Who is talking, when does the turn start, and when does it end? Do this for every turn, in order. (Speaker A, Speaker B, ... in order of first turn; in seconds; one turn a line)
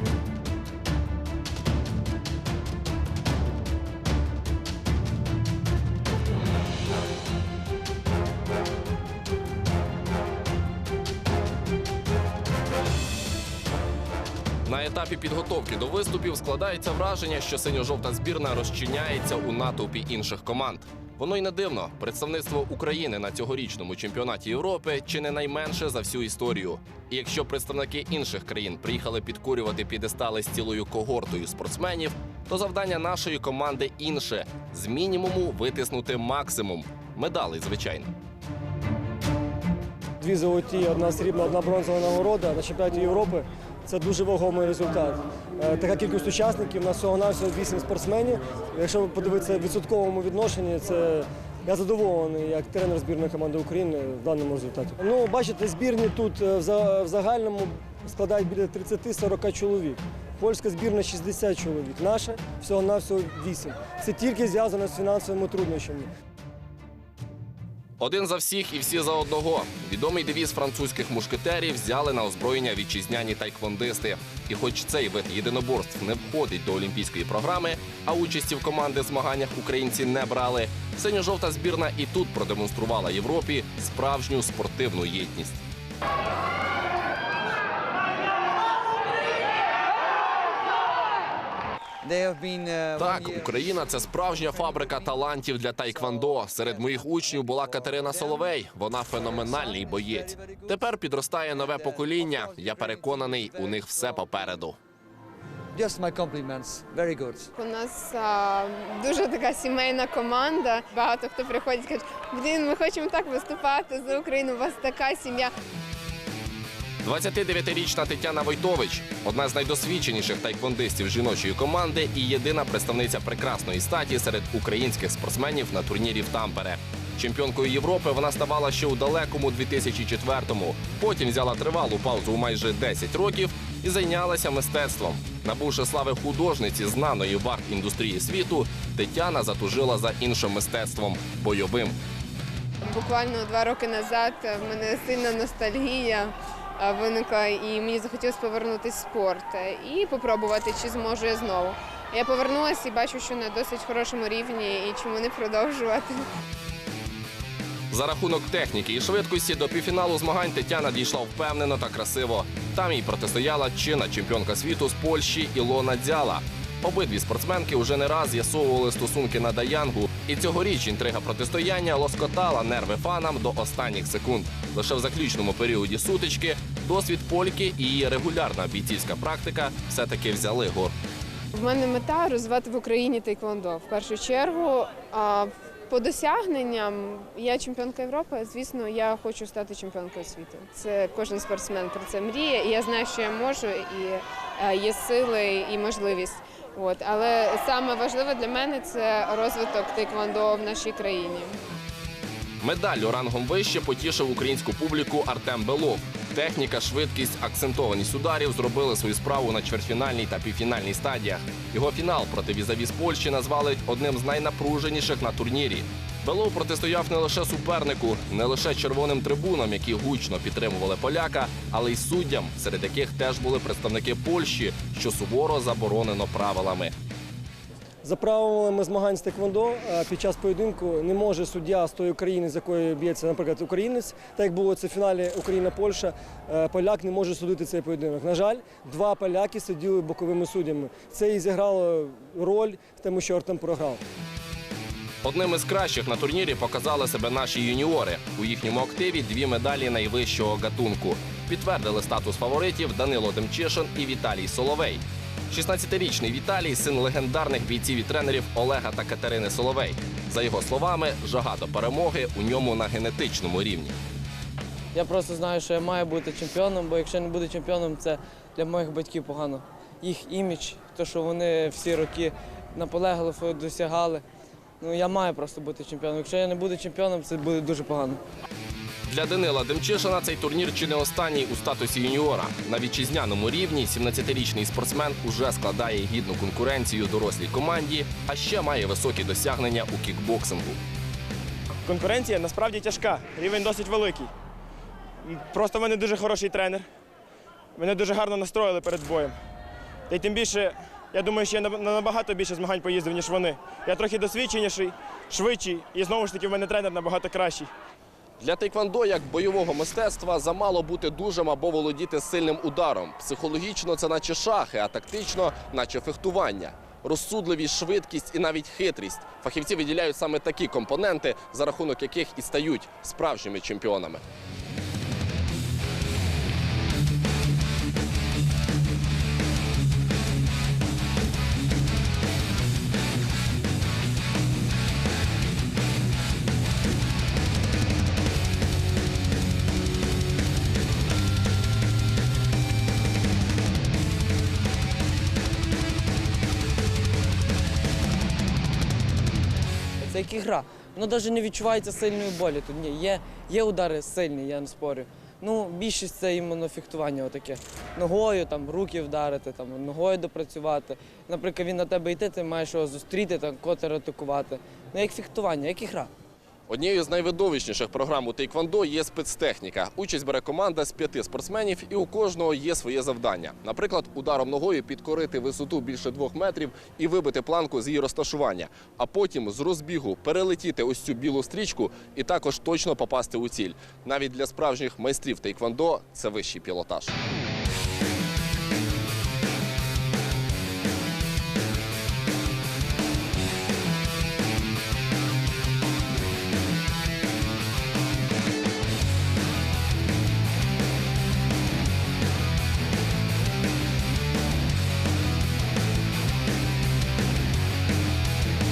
Speaker A: 14.7-38.1
Speaker B: 40.2-66.1
Speaker A: 68.0-85.6
Speaker C: 92.0-95.2
Speaker A: 93.0-104.8
Speaker C: 95.8-98.5
Speaker C: 99.5-100.8
Speaker C: 101.6-104.4
Speaker C: 105.7-107.5
Speaker D: 107.5-115.5
Speaker A: 117.0-142.0
Speaker D: 142.8-156.2
Speaker A: 157.9-180.9
Speaker D: 181.5-201.6
Speaker A: 202.6-226.9
Speaker B: 228.0-244.0
Speaker A: 245.2-263.9
Speaker E: 264.9-274.2
Speaker E: 274.8-278.2
Speaker A: 279.1-290.8
Speaker F: 291.9-294.2
Speaker F: 295.3-296.8
Speaker F: 297.8-299.3
Speaker F: 300.1-307.6
Speaker A: 308.4-324.2
Speaker E: 350.0-366.1
Speaker A: 366.7-387.1